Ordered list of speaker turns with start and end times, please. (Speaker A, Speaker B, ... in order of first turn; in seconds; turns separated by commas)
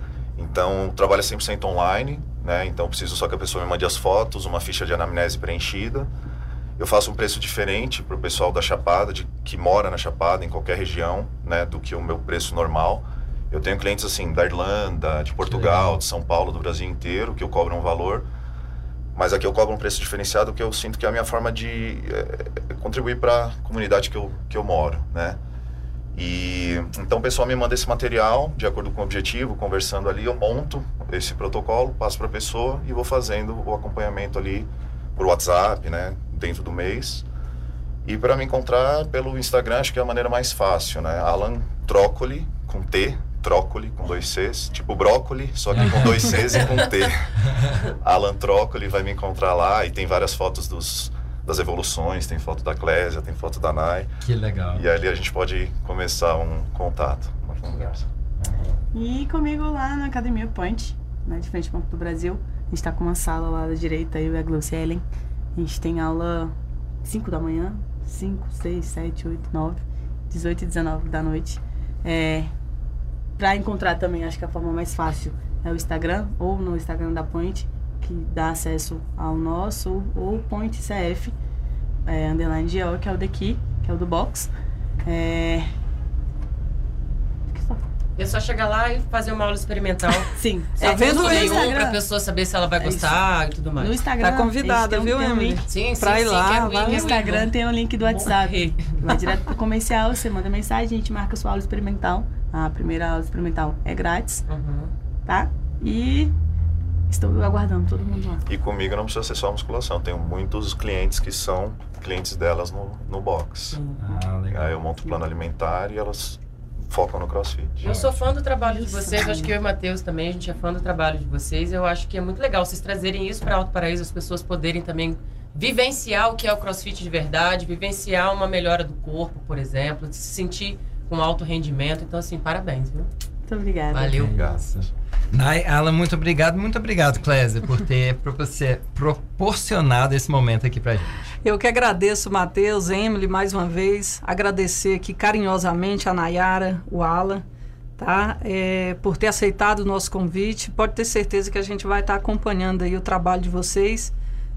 Speaker A: 0.3-6.1, Speaker A: 6.8-18.2, Speaker B: 15.5-16.0, Speaker A: 19.1-25.4, Speaker A: 26.1-37.2, Speaker A: 38.0-54.1, Speaker B: 45.7-46.7, Speaker B: 47.5-47.8, Speaker B: 54.2-54.8, Speaker A: 54.7-58.1, Speaker B: 58.4-58.7, Speaker C: 58.9-65.0, Speaker C: 65.5-72.5, Speaker C: 73.4-81.3, Speaker C: 82.0-84.5, Speaker C: 85.0-85.7, Speaker C: 87.5-87.8, Speaker D: 88.2-94.0, Speaker C: 90.3-92.0, Speaker E: 90.8-91.8, Speaker C: 92.8-93.2, Speaker C: 93.8-95.7, Speaker E: 94.2-97.1, Speaker D: 95.7-99.3, Speaker C: 96.8-104.4, Speaker D: 104.5-104.9, Speaker C: 105.2-106.3, Speaker C: 107.1-108.4, Speaker A: 108.5-113.8, Speaker D: 113.7-114.0, Speaker B: 114.0-114.8, Speaker A: 114.5-117.9, Speaker D: 117.8-133.1, Speaker B: 117.8-118.3, Speaker C: 118.6-119.5, Speaker C: 133.5-134.3, Speaker D: 133.9-134.3, Speaker B: 134.1-141.3, Speaker A: 134.3-134.8, Speaker E: 141.4-147.4, Speaker E: 148.0-154.1